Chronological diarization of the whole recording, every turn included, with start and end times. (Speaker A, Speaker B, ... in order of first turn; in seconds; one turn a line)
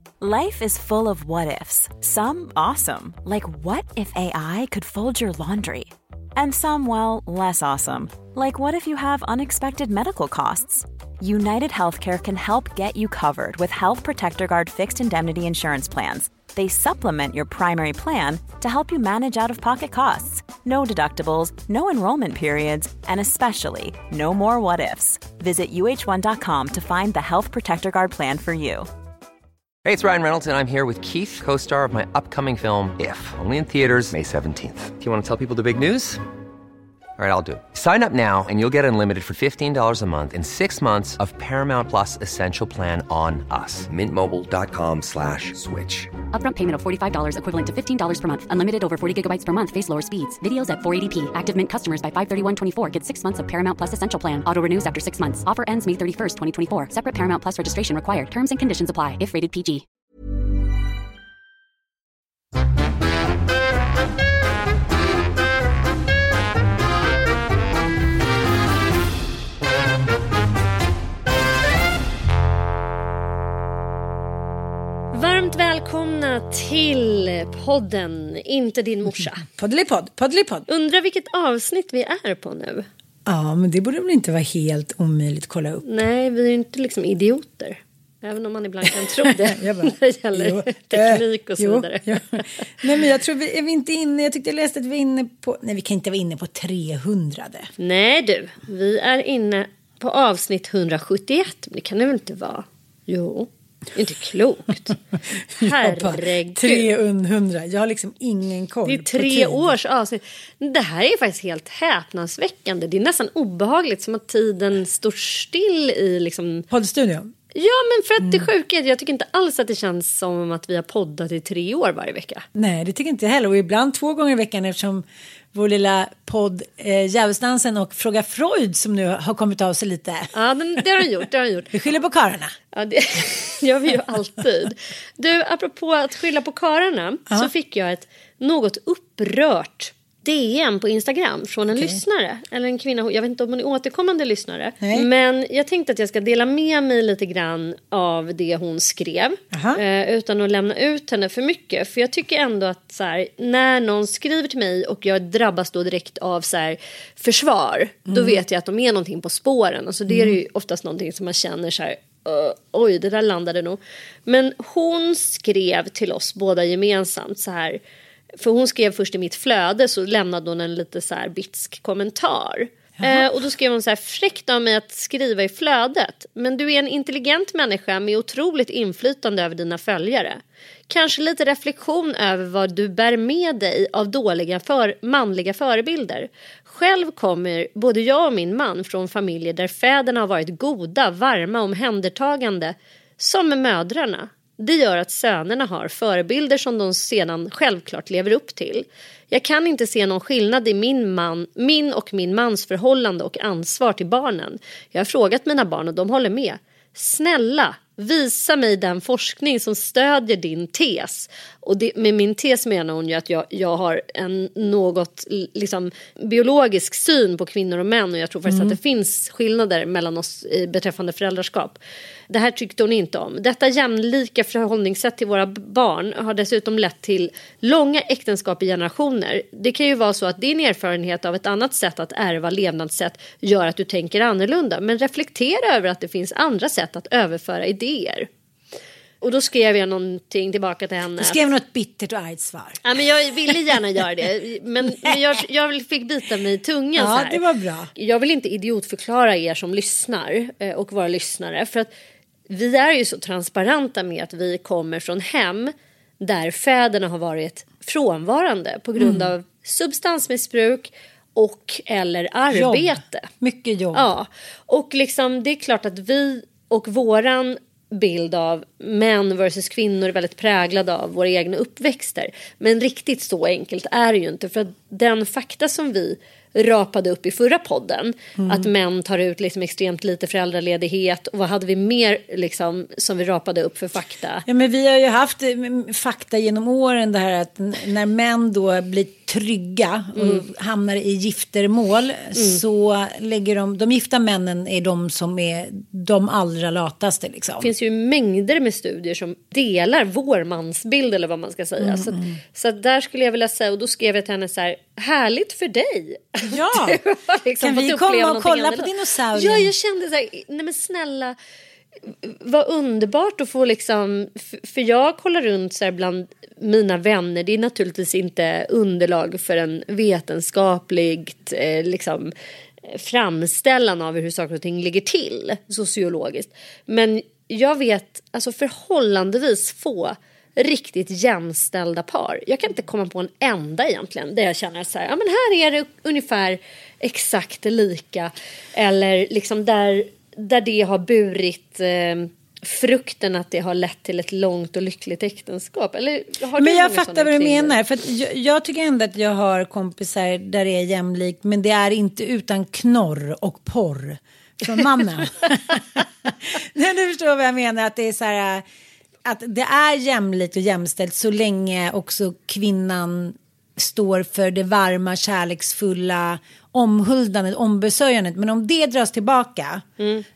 Speaker A: 0.2-28.9
Speaker B: 29.8-36.2
Speaker B: 37.2-46.2
Speaker C: 46.3-59.8
Speaker D: 75.1-79.5
Speaker E: 79.5-80.7
Speaker D: 80.7-82.8
Speaker E: 83.2-85.8
Speaker D: 85.8-92.6
Speaker E: 89.0-97.7
Speaker D: 97.8-105.0
Speaker E: 105.5-109.7
Speaker D: 105.5-106.9
Speaker D: 108.8-116.7
Speaker E: 116.7-117.3
Speaker D: 117.5-122.4
Speaker E: 118.2-118.5
Speaker E: 122.5-130.8
Speaker D: 130.3-131.7
Speaker E: 131.7-132.5
Speaker D: 132.7-167.8
Speaker E: 141.7-142.0
Speaker E: 144.8-145.1
Speaker E: 149.5-149.8
Speaker E: 158.1-158.4
Speaker E: 160.1-160.4
Speaker D: 168.4-221.8
Speaker E: 173.0-173.3
Speaker E: 218.5-218.8
Speaker D: 222.3-238.3
Speaker D: 239.2-241.4
Speaker E: 241.2-242.8
Speaker D: 242.8-247.4
Speaker E: 243.4-243.7
Speaker E: 246.9-247.9
Speaker D: 247.9-251.9
Speaker D: 252.5-263.3
Speaker E: 259.0-259.3
Speaker E: 262.5-264.1
Speaker D: 263.9-284.4
Speaker E: 278.4-278.7
Speaker E: 284.4-297.7
Speaker D: 290.1-290.4
Speaker D: 292.3-292.6
Speaker D: 297.6-311.3
Speaker E: 301.8-302.4
Speaker E: 306.4-307.0
Speaker E: 307.6-309.7
Speaker D: 312.1-322.3
Speaker D: 322.9-347.8
Speaker E: 346.6-358.6
Speaker E: 359.2-369.8
Speaker D: 370.0-370.2